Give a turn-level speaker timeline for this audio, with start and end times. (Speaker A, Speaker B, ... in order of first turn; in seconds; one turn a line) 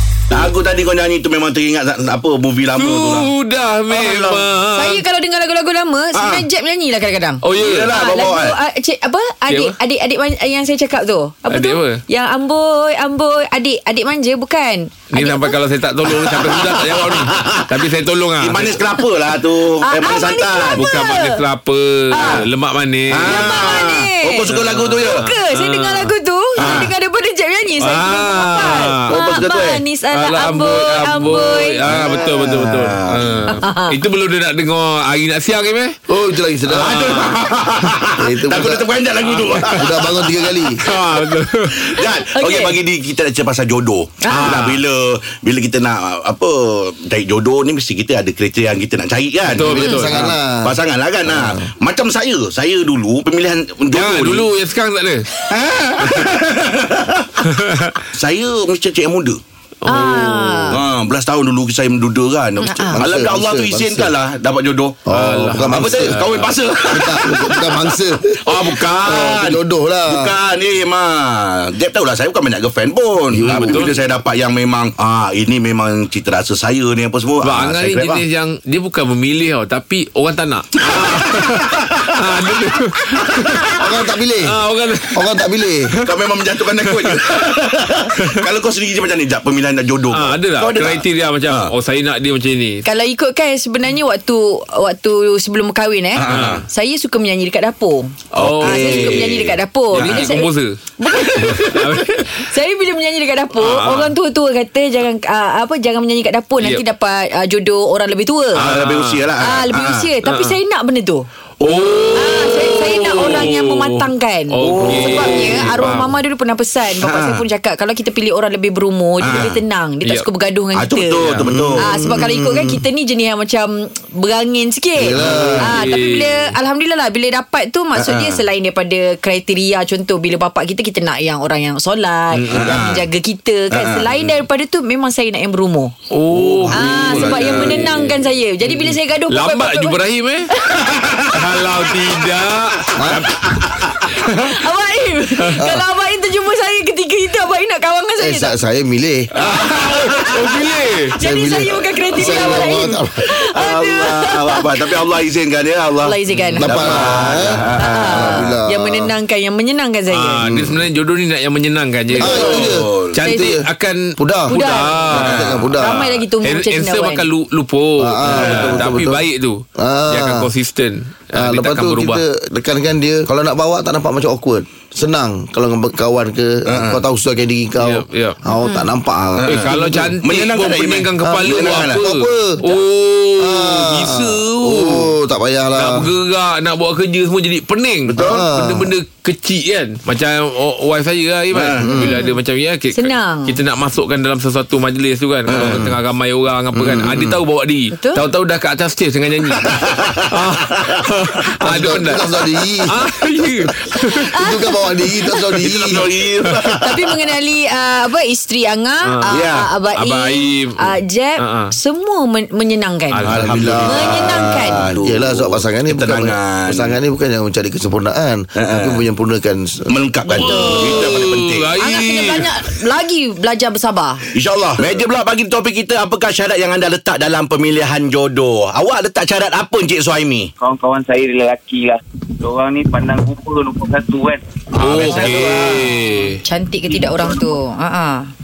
Speaker A: 0.3-3.3
Speaker B: 2.8-5.0
Speaker A: 3.9-4.5
Speaker C: 4.8-15.6
Speaker A: 6.1-6.5
Speaker B: 7.4-7.9
Speaker A: 7.6-8.6
Speaker B: 9.5-9.7
Speaker B: 11.5-12.0
Speaker B: 15.1-18.8
Speaker A: 16.2-17.8
Speaker A: 18.4-20.9
Speaker C: 19.8-21.4
Speaker B: 20.8-23.5
Speaker C: 22.1-22.4
Speaker A: 22.2-22.5
Speaker A: 23.1-25.3
Speaker C: 23.2-31.8
Speaker B: 24.5-26.9
Speaker A: 26.6-26.9
Speaker B: 27.8-29.1
Speaker A: 29.1-29.8
Speaker B: 30.1-36.0
Speaker A: 31.9-33.5
Speaker C: 33.6-33.9
Speaker D: 36.1-37.1
Speaker B: 36.7-37.4
Speaker A: 36.7-40.1
Speaker D: 38.2-38.9
Speaker B: 39.2-39.9
Speaker D: 39.6-40.8
Speaker B: 40.9-42.0
Speaker A: 41.8-54.5
Speaker C: 42.4-42.8
Speaker C: 44.2-44.5
Speaker B: 44.3-44.8
Speaker B: 49.5-50.3
Speaker D: 49.6-51.7
Speaker B: 53.9-55.3
Speaker A: 55.5-57.5
Speaker B: 56.0-56.3
Speaker B: 57.5-58.0
Speaker A: 58.1-59.4
Speaker B: 59.8-60.7
Speaker C: 59.9-60.8
Speaker A: 60.7-65.0
Speaker C: 62.6-63.0
Speaker D: 62.9-64.1
Speaker D: 65.1-66.2
Speaker B: 65.1-66.5
Speaker A: 65.6-78.2
Speaker D: 66.9-70.3
Speaker D: 73.3-73.9
Speaker B: 73.5-74.0
Speaker B: 77.4-83.8
Speaker A: 80.8-82.2
Speaker D: 83.8-84.6
Speaker B: 84.4-85.4
Speaker D: 85.1-85.9
Speaker A: 86.0-91.7
Speaker B: 86.7-87.3
Speaker B: 90.1-92.8
Speaker C: 92.8-100.5
Speaker A: 96.2-96.7
Speaker B: 96.2-96.6
Speaker B: 98.3-99.3
Speaker A: 98.4-100.3
Speaker B: 99.9-100.8
Speaker C: 101.0-108.7
Speaker B: 101.4-102.4
Speaker B: 103.6-104.1
Speaker A: 108.5-110.1
Speaker B: 108.6-109.3
Speaker C: 109.4-111.3
Speaker B: 110.2-110.6
Speaker A: 111.6-113.4
Speaker B: 111.6-116.1
Speaker C: 112.2-121.3
Speaker A: 114.6-115.8
Speaker A: 117.0-117.4
Speaker A: 119.2-119.6
Speaker A: 120.7-121.9
Speaker B: 121.2-121.5
Speaker D: 121.5-122.8
Speaker C: 121.8-135.9
Speaker D: 125.0-125.7
Speaker B: 125.2-126.5
Speaker A: 128.0-128.4
Speaker B: 132.3-132.9
Speaker A: 132.5-133.1
Speaker A: 133.7-134.3
Speaker B: 136.1-138.1
Speaker A: 136.3-138.1
Speaker C: 136.7-140.0
Speaker B: 139.3-140.5
Speaker C: 140.5-141.0
Speaker A: 141.0-141.4
Speaker B: 141.3-143.6
Speaker D: 143.0-143.3
Speaker A: 143.4-143.9
Speaker B: 144.1-144.6
Speaker C: 144.3-148.6
Speaker D: 145.6-145.8
Speaker D: 148.2-149.3
Speaker B: 149.3-151.2
Speaker A: 149.4-150.4
Speaker C: 151.2-154.9
Speaker D: 151.2-153.1
Speaker A: 153.4-158.5
Speaker C: 156.0-156.9
Speaker B: 156.4-157.4
Speaker D: 156.6-159.1
Speaker C: 157.8-160.4
Speaker B: 160.1-172.2
Speaker D: 160.4-160.8
Speaker A: 162.2-163.2
Speaker D: 162.2-163.6
Speaker C: 163.2-163.6
Speaker D: 164.2-164.5
Speaker C: 164.5-165.1
Speaker A: 165.1-165.6
Speaker D: 165.1-166.0
Speaker C: 165.8-167.2
Speaker D: 168.0-169.2
Speaker A: 168.3-168.9
Speaker D: 169.8-170.5
Speaker D: 171.3-180.1
Speaker A: 176.7-177.0
Speaker B: 177.8-178.4
Speaker C: 178.6-178.9
Speaker A: 179.4-182.0
Speaker B: 179.5-185.1
Speaker D: 181.2-182.6
Speaker D: 183.4-186.1
Speaker B: 185.8-202.2
Speaker A: 188.1-188.5
Speaker D: 188.2-188.9
Speaker A: 191.5-191.9
Speaker D: 191.8-192.2
Speaker C: 192.0-192.4
Speaker C: 192.9-193.6
Speaker A: 195.5-195.9
Speaker D: 195.6-195.9
Speaker A: 196.7-197.4
Speaker C: 197.9-198.2
Speaker A: 199.6-201.1
Speaker D: 201.7-202.9
Speaker B: 202.9-204.3
Speaker C: 204.3-205.2
Speaker D: 204.3-206.1
Speaker A: 205.6-207.2
Speaker C: 206.8-213.2
Speaker B: 209.0-209.4
Speaker A: 209.3-209.7
Speaker B: 209.9-211.7
Speaker B: 213.1-213.6
Speaker A: 213.2-217.0
Speaker D: 213.3-220.6
Speaker C: 213.9-214.8
Speaker A: 218.6-219.0
Speaker A: 219.9-221.7
Speaker C: 220.3-221.2
Speaker B: 220.3-222.5
Speaker C: 221.8-224.3
Speaker A: 224.3-230.5
Speaker E: 230.6-234.4
Speaker A: 234.7-235.6
Speaker B: 234.8-236.4
Speaker E: 235.0-236.0
Speaker C: 236.4-238.3
Speaker E: 236.9-237.6